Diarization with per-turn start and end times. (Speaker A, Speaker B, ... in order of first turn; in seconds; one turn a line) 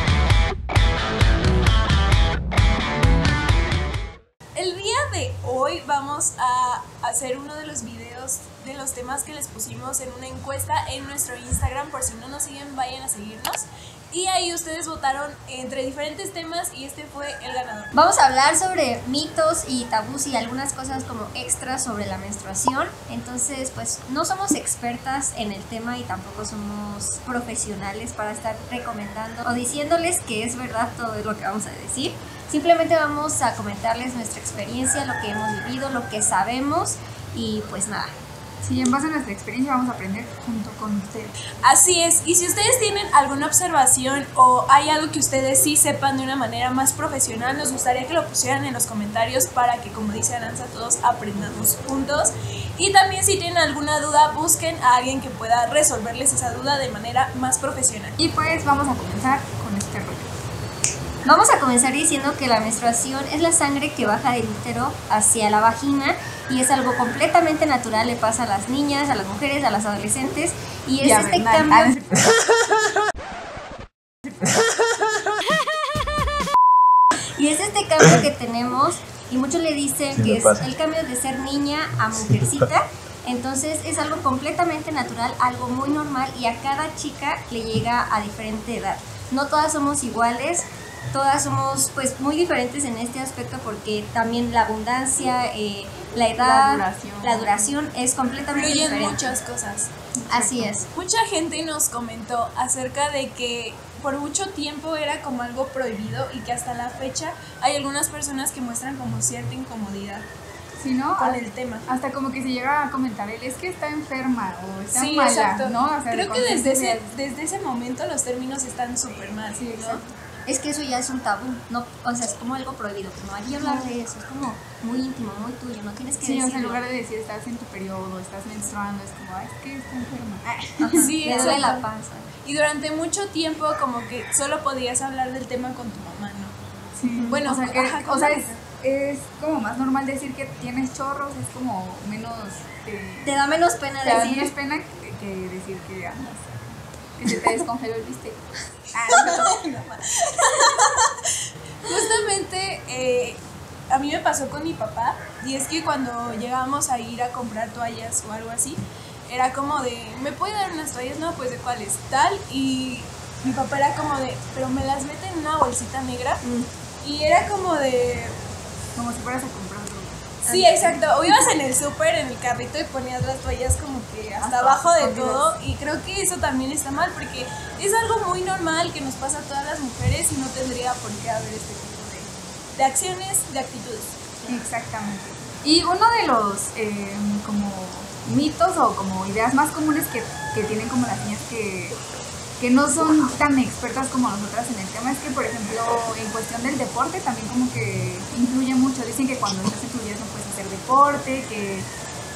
Speaker A: 4.5-17.9
Speaker B: 17.9-38.1
Speaker C: 38.6-41.4
Speaker A: 41.6-58.2
Speaker C: 58.2-60.3
Speaker B: 61.2-71.9
Speaker C: 71.0-72.4
Speaker B: 77.4-99.3
Speaker C: 96.4-97.8
Speaker A: 98.5-99.9
Speaker C: 100.2-100.8
Speaker B: 100.3-100.9
Speaker A: 100.9-110.3
Speaker C: 110.8-117.1
Speaker A: 111.2-111.9
Speaker A: 114.9-120.0
Speaker C: 119.6-120.1
Speaker B: 120.5-126.8
Speaker C: 123.6-123.9
Speaker C: 126.2-131.7
Speaker B: 130.8-132.3
Speaker A: 130.9-131.8
Speaker A: 132.4-136.5
Speaker C: 136.9-143.4
Speaker B: 137.0-137.4
Speaker A: 137.3-138.6
Speaker B: 143.2-144.5
Speaker C: 144.0-149.6
Speaker A: 149.1-166.4
Speaker B: 166.4-166.7
Speaker A: 167.0-168.4
Speaker C: 169.0-170.4
Speaker B: 170.4-171.4
Speaker A: 170.5-184.3
Speaker C: 174.4-175.4
Speaker C: 184.5-192.0
Speaker C: 192.6-201.9